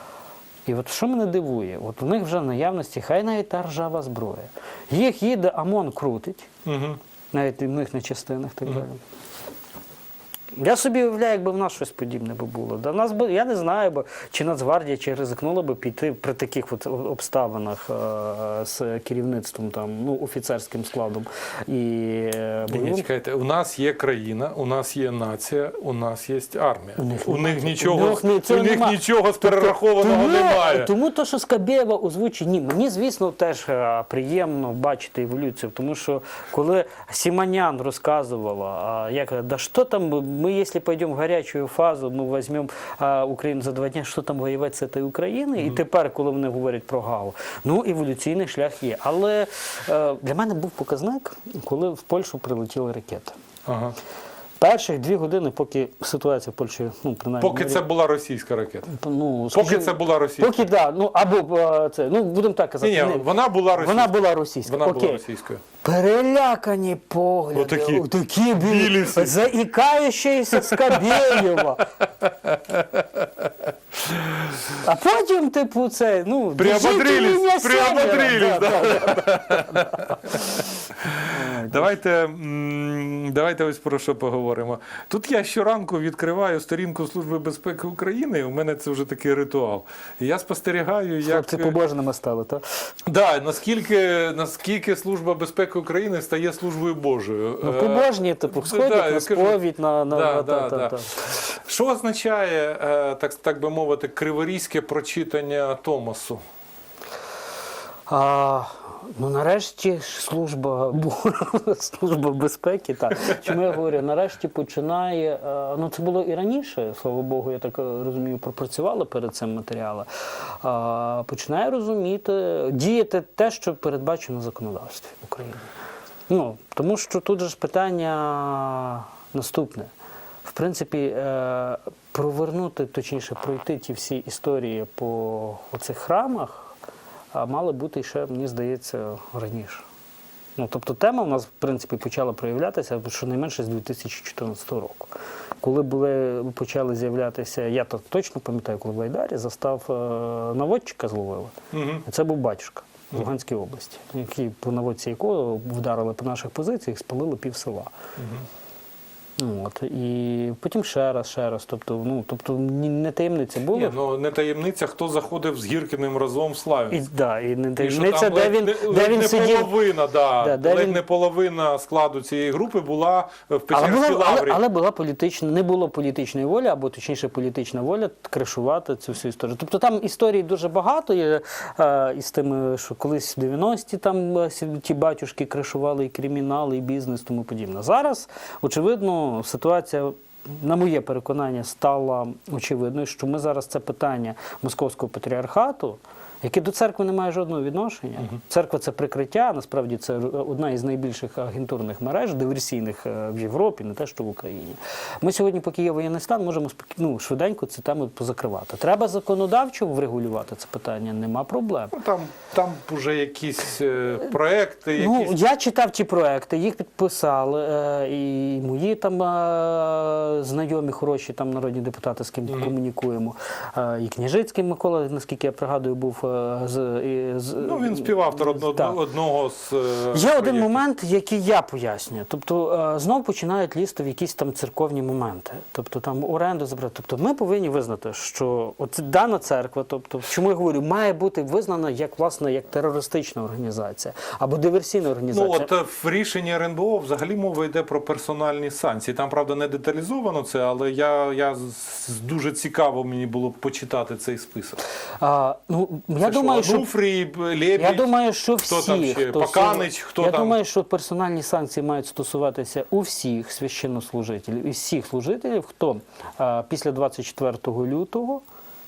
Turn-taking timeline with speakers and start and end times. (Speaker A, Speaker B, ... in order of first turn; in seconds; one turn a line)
Speaker A: 0.7-6.5
Speaker B: 6.7-7.0
Speaker A: 7.3-9.0
Speaker A: 10.5-23.1
Speaker B: 22.7-30.9
Speaker A: 27.0-53.4
Speaker B: 53.7-54.0
Speaker A: 54.6-57.8
Speaker B: 57.4-58.9
Speaker A: 58.9-65.2
Speaker B: 59.5-60.7
Speaker B: 62.8-65.6
Speaker A: 65.8-71.8
Speaker B: 67.5-69.4
Speaker B: 70.5-71.5
Speaker B: 72.2-74.6
Speaker A: 74.8-80.3
Speaker B: 76.5-91.8
Speaker A: 81.2-82.0
Speaker A: 91.2-92.6
Speaker B: 93.1-99.6
Speaker A: 97.6-101.4
Speaker B: 100.1-106.4
Speaker A: 108.1-125.7
Speaker A: 126.3-129.9
Speaker A: 130.4-136.7
Speaker A: 137.3-139.9
Speaker A: 140.6-157.9
Speaker B: 151.7-152.1
Speaker B: 158.2-158.4
Speaker A: 159.4-164.0
Speaker B: 163.7-167.0
Speaker A: 166.9-169.8
Speaker B: 167.8-174.6
Speaker A: 170.4-171.0
Speaker A: 173.7-211.9
Speaker B: 211.9-215.4
Speaker A: 215.0-229.0
Speaker B: 222.5-222.7
Speaker B: 227.6-230.8
Speaker A: 230.1-245.7
Speaker B: 245.3-254.8
Speaker A: 255.2-256.9
Speaker B: 256.2-260.6
Speaker A: 257.8-268.4